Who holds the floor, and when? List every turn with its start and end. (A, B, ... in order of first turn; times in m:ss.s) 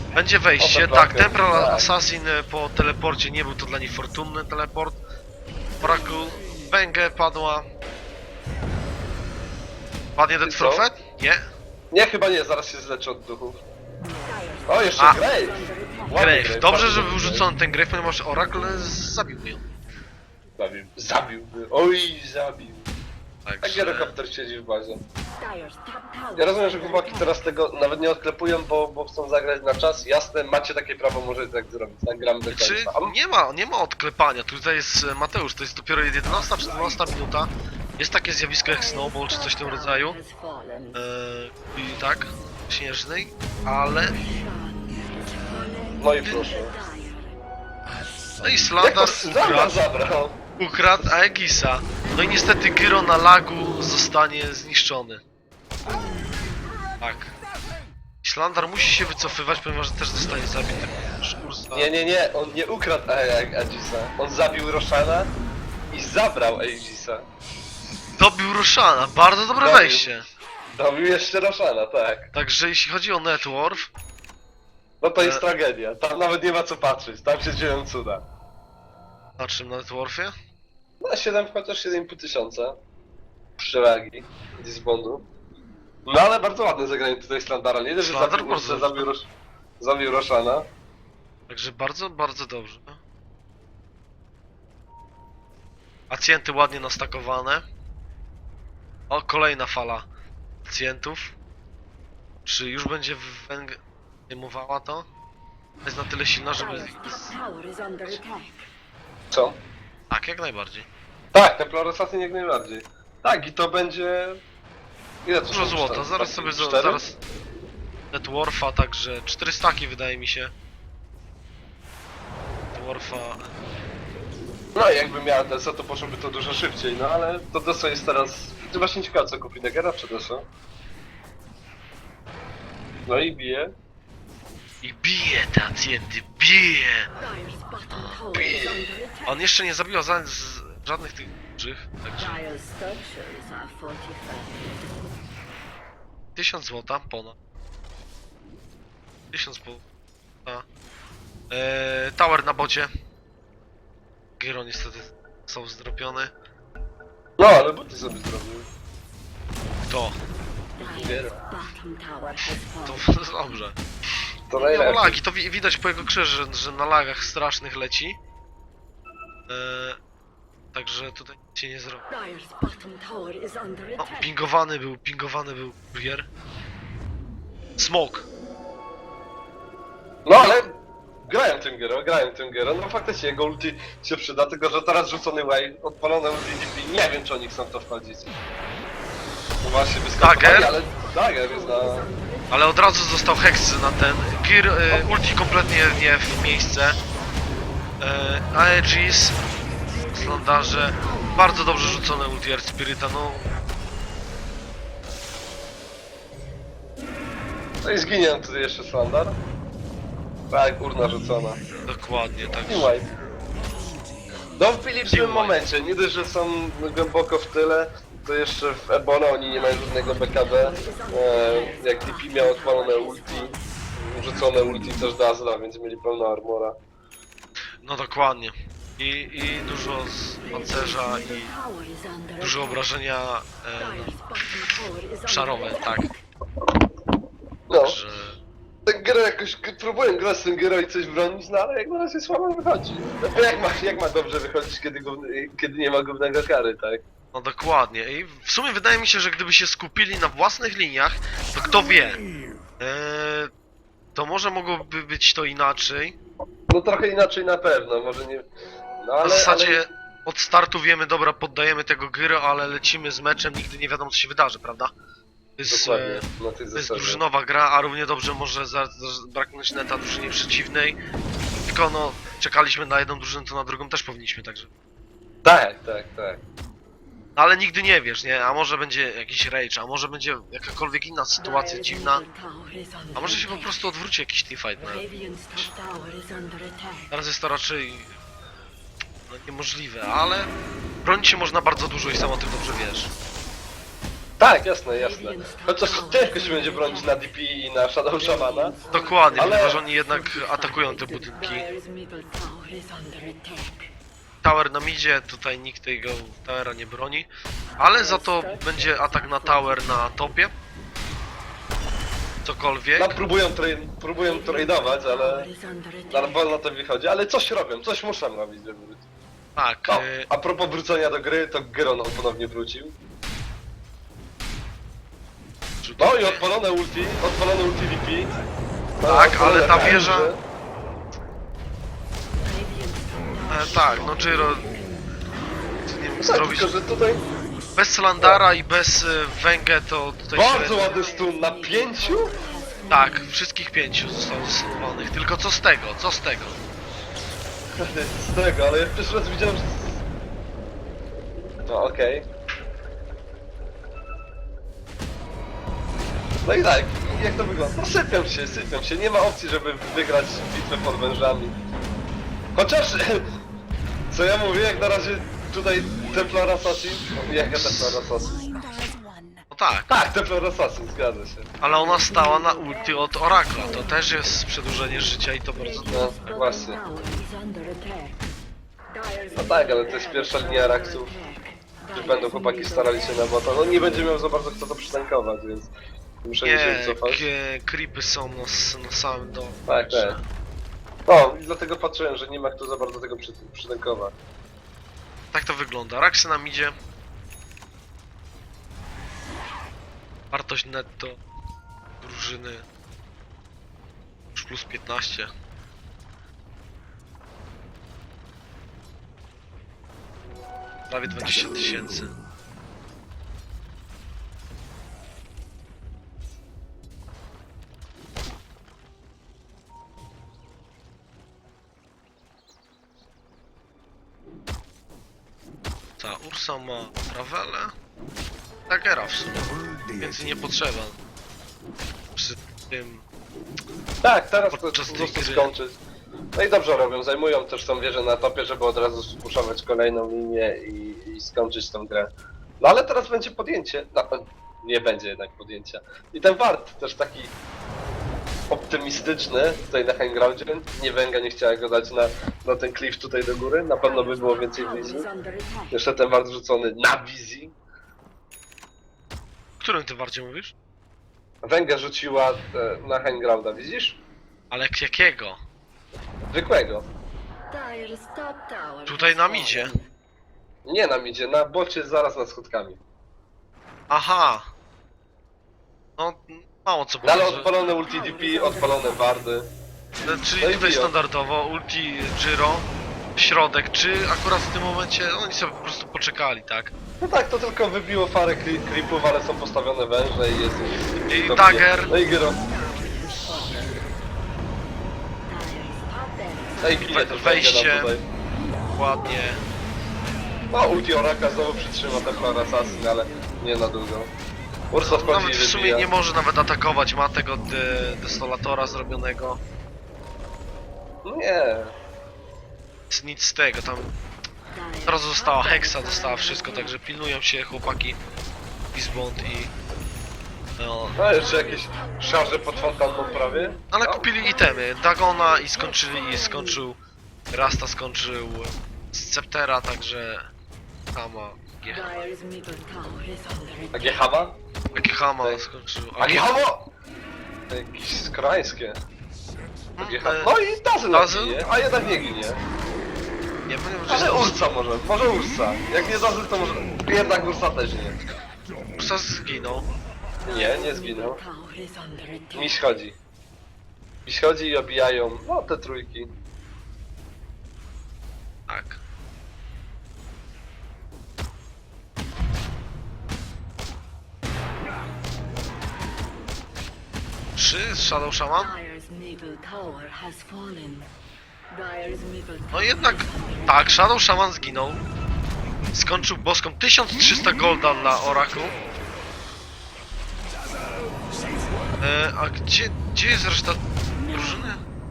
0:00.1-0:05.0 A
0:00.6-0:01.9 B
0:05.8-0:07.6 A
0:10.2-0:11.4 A
0:10.4-0:10.9 B
0:11.9-0:13.6 B
0:14.1-0:16.2 C
0:14.7-0:17.5 B
0:16.1-0:19.6 A
0:20.6-0:22.9 B
0:23.4-0:24.1 A
0:23.6-0:25.0 B
0:25.4-0:27.4 C
0:26.4-0:33.1 B
0:32.5-0:40.2 A
0:38.6-0:41.0 C
0:40.9-0:44.2 A
0:44.1-0:47.4 C
0:46.0-0:46.7 B
0:48.4-0:49.8 A
0:48.8-0:50.4 B
0:50.6-0:55.2 A
0:57.0-0:57.3 A
0:58.2-1:01.9 A
1:01.7-1:05.3 B
1:05.9-1:07.2 B
1:08.2-1:10.2 A
1:09.6-1:10.1 B
1:10.7-1:12.3 B
1:12.3-1:13.9 A
1:15.0-1:18.2 B
1:15.2-1:15.4 A
1:19.4-1:20.3 A
1:21.0-1:22.8 B
1:23.6-1:25.2 B
1:26.0-1:29.3 B
1:28.0-1:29.1 A
1:29.8-1:30.6 B
1:31.5-1:33.0 A
1:36.1-1:37.6 A
1:39.1-1:40.1 A
1:40.6-1:41.3 A
1:42.4-1:45.1 A
1:45.8-1:47.3 A
1:46.6-1:48.7 C
1:49.3-1:49.6 B
1:50.1-1:50.9 A
1:51.3-1:54.4 B
1:55.2-1:57.0 B
1:55.5-1:57.2 A
1:58.1-2:00.5 A
2:02.7-2:03.6 A
2:04.7-2:10.4 B
2:13.0-2:13.7 B
2:14.8-2:17.1 A
2:17.2-2:19.4 C
2:18.3-2:18.9 B
2:19.2-2:22.4 A
2:22.2-2:25.2 C
2:26.4-2:27.4 A
2:29.3-2:29.8 A
2:31.5-2:32.9 A
2:34.4-2:36.3 A
2:37.4-2:38.7 B
2:39.8-2:40.2 A
2:40.8-2:43.1 C
2:40.9-2:41.4 B
2:42.8-2:43.8 A
2:44.5-2:45.2 B
2:44.6-2:48.2 A
2:49.5-2:50.0 A
2:50.7-2:52.0 A
2:52.1-2:54.3 C
2:54.0-2:56.3 A
2:57.8-2:58.2 A
3:00.2-3:08.3 B
3:09.6-3:12.1 B
3:10.2-3:10.7 A
3:10.5-3:12.9 C
3:12.5-3:17.0 A
3:18.0-3:19.4 A
3:19.9-3:22.2 C
3:20.1-3:23.5 A
3:27.8-3:29.4 B
3:30.5-3:31.6 B
3:31.8-3:32.9 A
3:32.6-3:33.0 B
3:34.5-3:46.7 B
3:35.1-3:35.6 A
3:39.5-3:43.6 C
3:47.8-3:51.5 A
3:50.5-3:52.8 C
3:52.4-3:54.1 A
3:53.8-3:56.2 C
3:55.2-3:56.1 A
3:57.7-3:58.0 B
3:57.8-3:58.4 A
3:58.8-4:07.0 B
4:07.3-4:12.2 A
4:12.8-4:13.5 A
4:14.1-4:16.2 A
4:16.7-4:18.4 B
4:19.0-4:19.8 B
4:19.2-4:24.9 A
4:25.6-4:31.0 A
4:25.7-4:27.2 B
4:31.5-4:34.7 A
4:35.4-4:36.4 B
4:37.4-4:42.2 A
4:41.4-4:43.7 C
4:43.2-4:45.0 A
4:44.8-4:47.1 C
4:47.1-4:48.1 A
4:49.3-4:50.5 A
4:51.0-4:53.1 A
4:54.4-4:58.7 B
4:54.9-4:57.2 C
4:58.2-5:03.9 C
4:58.9-5:01.6 A
4:59.4-4:59.8 B
5:04.4-5:10.5 A
5:07.8-5:10.1 C
5:12.4-5:13.2 A
5:13.0-5:15.5 B
5:14.2-5:16.5 C
5:16.1-5:19.0 B
5:19.6-5:20.3 A
5:19.9-5:22.9 B
5:25.8-5:26.4 A
5:26.0-5:28.3 B
5:29.0-5:30.4 B
5:29.0-5:30.3 A
5:32.4-5:34.9 C
5:33.5-5:34.7 A
5:35.8-5:36.8 A
5:36.2-5:37.2 B
5:37.8-5:40.9 A
5:40.3-5:42.3 B
5:40.6-5:43.3 C
5:42.9-5:46.6 A
5:47.8-5:50.0 B
5:51.7-5:52.3 B
5:56.4-6:01.5 B
6:02.5-6:03.2 B
6:04.1-6:08.5 B
6:07.5-6:08.0 A
6:09.5-6:09.9 A
6:09.9-6:11.5 B
6:11.6-6:16.0 A
6:11.6-6:14.2 C
6:15.5-6:18.2 C
6:15.8-6:16.8 B
6:18.9-6:23.4 C
6:19.3-6:21.1 B
6:21.9-6:25.7 B
6:26.2-6:27.3 B
6:26.4-6:30.2 A
6:29.7-6:30.2 B
6:31.1-6:34.1 B
6:35.3-6:36.7 A
6:40.3-6:41.2 A
6:42.0-6:42.6 A
6:44.3-6:45.3 A
6:50.9-6:52.1 A
7:06.0-7:07.7 A
7:08.7-7:11.0 A
7:12.1-7:13.0 A
7:14.0-7:15.8 B
7:14.5-7:15.5 A
7:16.4-7:27.3 B
7:28.5-7:35.1 B
7:33.8-7:35.8 C
7:35.7-7:37.5 B
7:39.6-7:40.5 A
7:41.4-7:44.0 B
7:44.5-7:45.4 A
7:46.3-7:46.8 B
7:47.5-7:49.9 C
7:48.8-7:49.7 A
7:50.6-7:52.8 B
7:53.9-7:54.5 A
7:56.0-7:57.5 A
7:57.0-7:59.5 B
7:57.2-7:59.2 C
8:00.0-8:06.7 A
8:00.4-8:00.9 B
8:07.0-8:12.4 B
8:11.1-8:11.9 A
8:12.0-8:13.9 C
8:15.3-8:17.0 C
8:16.6-8:18.0 B
8:16.9-8:17.9 A
8:18.7-8:19.4 A
8:20.5-8:24.1 B
8:21.7-8:22.1 C
8:24.7-8:25.9 B
8:24.8-8:29.4 A
8:31.0-8:31.7 B
8:32.9-8:33.9 A
8:34.5-8:36.8 C
8:34.8-8:38.0 A
8:38.7-8:39.5 A
8:40.6-8:41.0 A
8:41.0-8:44.0 B
8:41.1-8:46.6 C
8:43.7-8:46.8 A
8:47.3-8:50.3 A
8:50.9-8:51.9 A
8:51.7-8:54.0 C
8:53.7-8:54.4 B
8:54.7-8:56.3 A
8:56.0-8:56.7 B
8:57.5-8:58.8 B
8:59.8-9:00.3 A
8:59.8-9:02.4 B
9:00.9-9:01.5 A
9:03.5-9:04.4 A
9:03.9-9:08.0 B
9:08.8-9:09.7 A
9:10.2-9:11.2 B
9:10.2-9:12.6 C
9:12.3-9:12.9 B
9:14.0-9:16.1 B
9:18.5-9:18.8 A
9:27.4-9:28.5 A
9:28.3-9:30.9 C
9:31.5-9:33.9 C
9:32.5-9:34.8 A
9:35.7-9:38.5 A
9:41.8-9:44.6 A